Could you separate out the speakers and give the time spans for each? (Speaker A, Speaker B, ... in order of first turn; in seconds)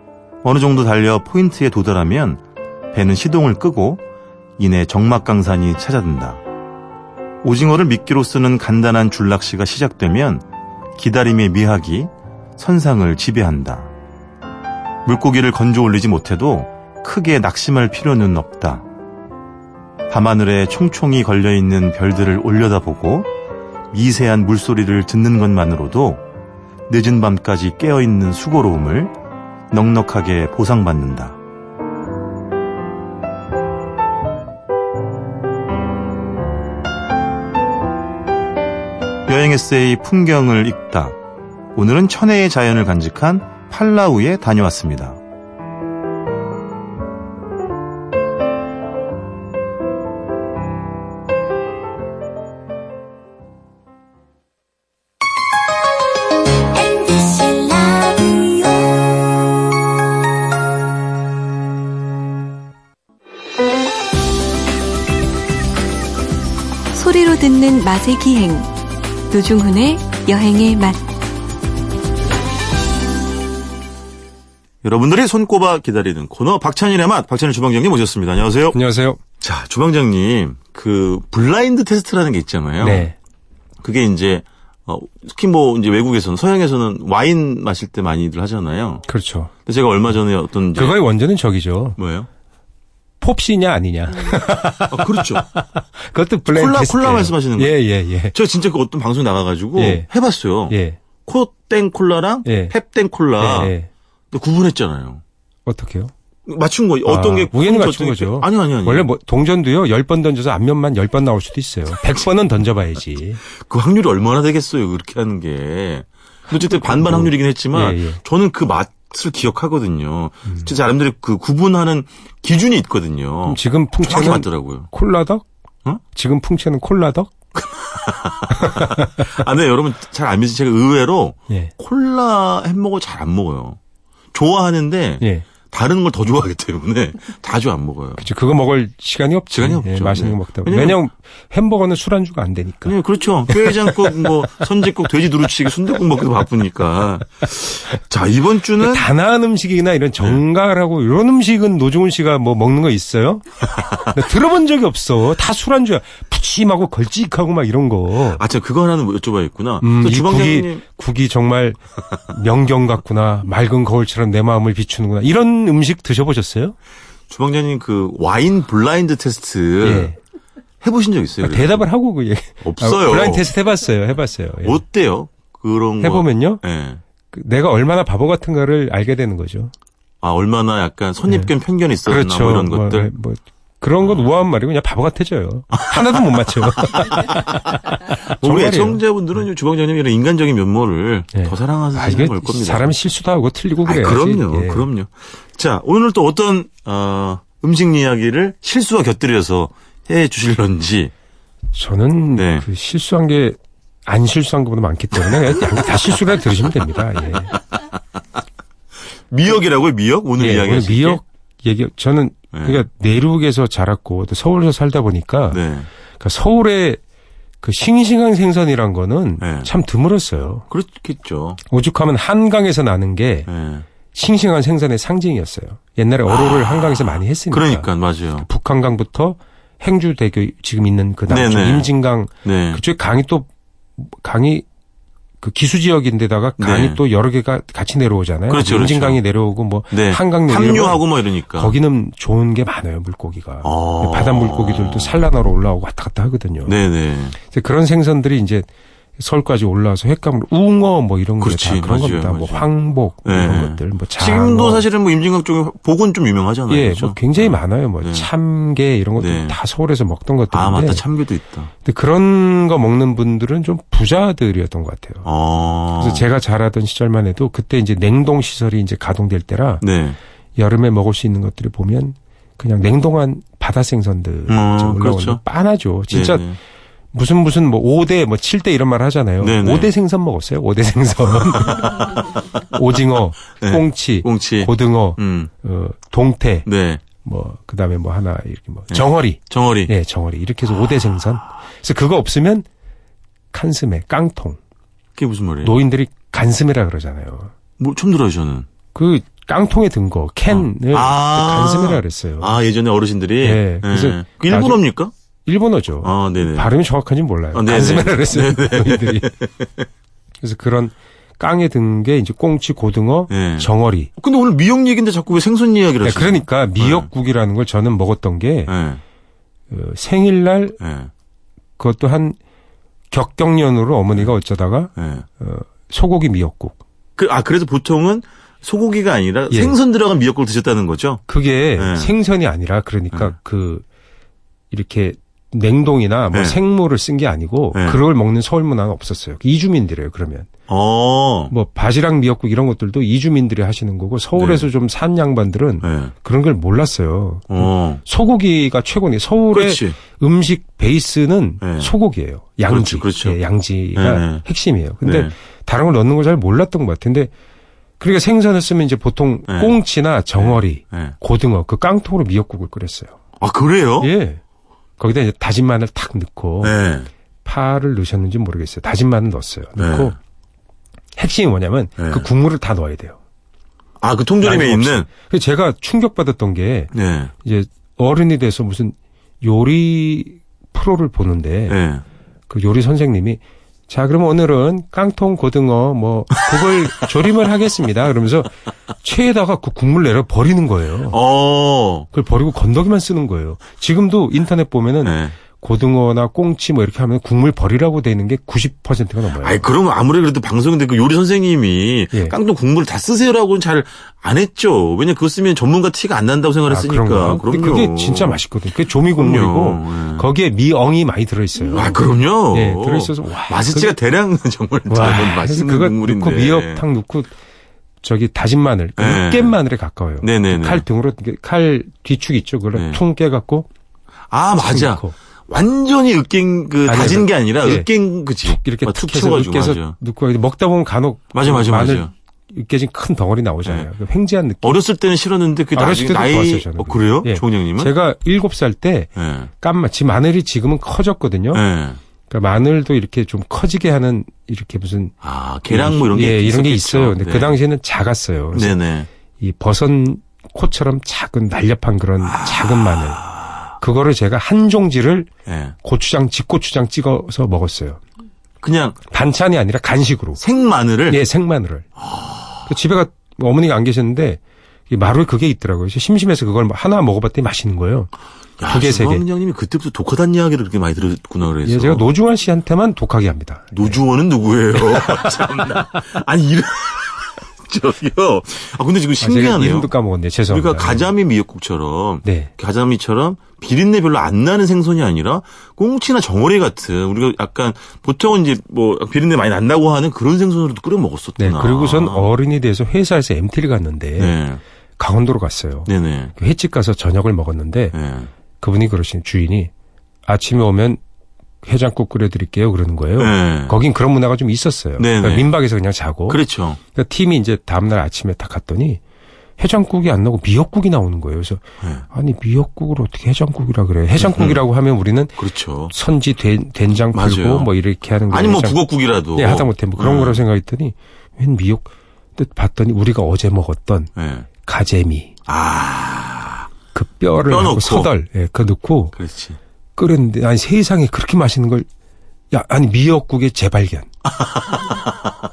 Speaker A: 0.4-2.4, 2.9-4.0, 4.6-6.4, 7.4-10.4, 11.0-13.9, 15.1-18.9, 20.1-23.3, 23.9-26.2, 26.9-29.1, 29.7-31.4, 39.3-41.2, 41.8-45.2, 74.8-78.8, 79.4-83.1, 83.8-89.0, 89.7-91.0, 92.0-92.3, 94.9-95.5, 96.5-97.8, 98.3-103.7, 104.3-105.2, 106.5-109.1, 113.5-124.9, 127.6-133.8, 134.3-138.3, 139.5-141.0, 142.8-149.1, 158.4-160.8, 167.3-170.1, 170.8-171.8, 172.6-173.5, 174.6-177.0, 180.2-183.1, 185.8-187.5, 188.3-192.9, 193.8-201.1, 202.3-202.7, 209.3-211.2, 212.5-212.8, 215.5-215.9, 219.4-219.7, 220.7-221.6, 223.5-223.9, 226.3-228.5, 231.3-231.9, 232.4-232.8, 236.6-237.0, 238.5-239.2, 239.9-241.8, 243.6-245.3, 246.7-247.4, 251.4-252.7, 253.2-258.3, 259.2-259.6, 260.5-261.7, 265.2-266.3, 269.8-270.2, 274.5-275.4, 276.1-276.6, 279.4-279.9, 281.4-282.6, 283.6-285.5, 286.7-287.0, 288.9-289.9, 295.2-295.8, 297.8-298.7, 300.5-305.1, 306.0-306.7, 307.5-309.7, 313.3-317.1, 318.7-319.0, 320.8-321.1, 325.0-325.3, 327.2-331.2, 331.8-332.1, 336.3-336.6, 337.7-338.0, 340.7-341.5, 344.4-344.7, 345.8-346.1, 347.5-348.0, 349.5-350.0, 351.6-351.9, 352.7-353.4, 353.9-354.4, 355.0-355.3, 359.5-359.8, 360.4-361.1, 363.4-364.1, 366.6-367.1, 369.8-370.1, 372.0-372.3, 374.0-375.1, 376.9-377.3, 381.7-382.0, 391.1-392.1, 395.0-395.4, 399.4-408.4, 409.1-410.3, 411.7-416.8, 419.0-419.6, 420.2-420.9, 422.7-423.0, 424.3-429.9, 431.3-432.1, 434.6-437.9, 439.2-439.5, 441.5-442.0, 445.2-447.6, 448.5-449.1, 452.2-453.6, 455.5-455.8, 458.6-459.0, 460.4-461.2, 462.0-462.6, 468.6-472.1, 473.7-479.9, 480.5-492.3, 494.2-494.6, 495.9-496.3, 497.9-498.3, 503.2-503.8, 505.0-505.5, 506.3-506.8, 514.2-514.6, 515.4-515.9, 517.1-517.7, 518.3-520.4, 524.2-524.5, 525.5-526.7, 527.5-528.1, 529.2-529.6, 534.3-535.3
Speaker B: 57.0-58.1, 66.9-68.7, 69.3-71.0
Speaker C: 78.7-79.2, 82.8-83.2, 89.1-89.5, 90.8-92.0, 93.2-98.3, 99.8-100.1, 100.7-101.0, 102.5-102.8, 103.4-103.9, 105.7-106.1, 107.1-113.4, 116.6-118.2, 123.5-125.4, 126.2-127.3, 128.7-128.9, 135.2-135.5, 138.2-143.0, 143.5-144.5, 148.8-153.4, 154.0-158.4, 159.8-166.8, 169.8-170.2, 171.4-174.8, 176.0-176.6, 177.3-179.7, 181.3-181.5, 182.1-189.0, 191.3-194.9, 201.7-207.6, 210.4-215.6, 216.2-217.0, 217.6-220.7, 221.7-223.5, 224.1-227.9, 228.4-234.7, 235.4-241.0, 241.6-246.8, 247.4-248.7, 249.2-254.8, 256.7-261.1, 261.9-265.3, 266.0-269.8, 270.6-276.5, 277.1-286.7, 287.2-292.6, 293.5-294.6, 295.6-297.5, 298.9-302.6, 303.4-304.8, 305.5-309.3, 310.4-314.1, 316.0-318.8, 319.7-320.8, 321.8-322.4, 323.1-326.8, 329.5-329.8, 331.3-333.8, 334.7-340.5, 341.5-357.3, 358.0-363.1, 364.0-364.4, 365.0-366.8, 367.4-370.1, 371.2-373.2, 374.4-376.9, 377.4-381.8, 382.5-391.2, 392.1-399.6, 406.7-413.9, 414.9-417.3, 418.0-423.7, 424.7-425.1, 426.9-434.8, 435.8-441.6, 442.3-445.1, 445.7-448.8, 449.4-455.3, 455.8-458.0, 459.1-460.4, 461.1-461.9, 462.7-468.1, 468.6-469.2, 471.6-474.0, 475.0-475.3, 479.2-481.1, 482.2-482.5, 491.4-494.4, 495.0-498.0, 498.6-499.7, 500.3-501.0, 501.6-506.4, 506.9-509.0, 509.6-518.8, 519.4-524.1, 524.6-525.3, 526.9-529.2, 530.0-531.9, 532.5-534.1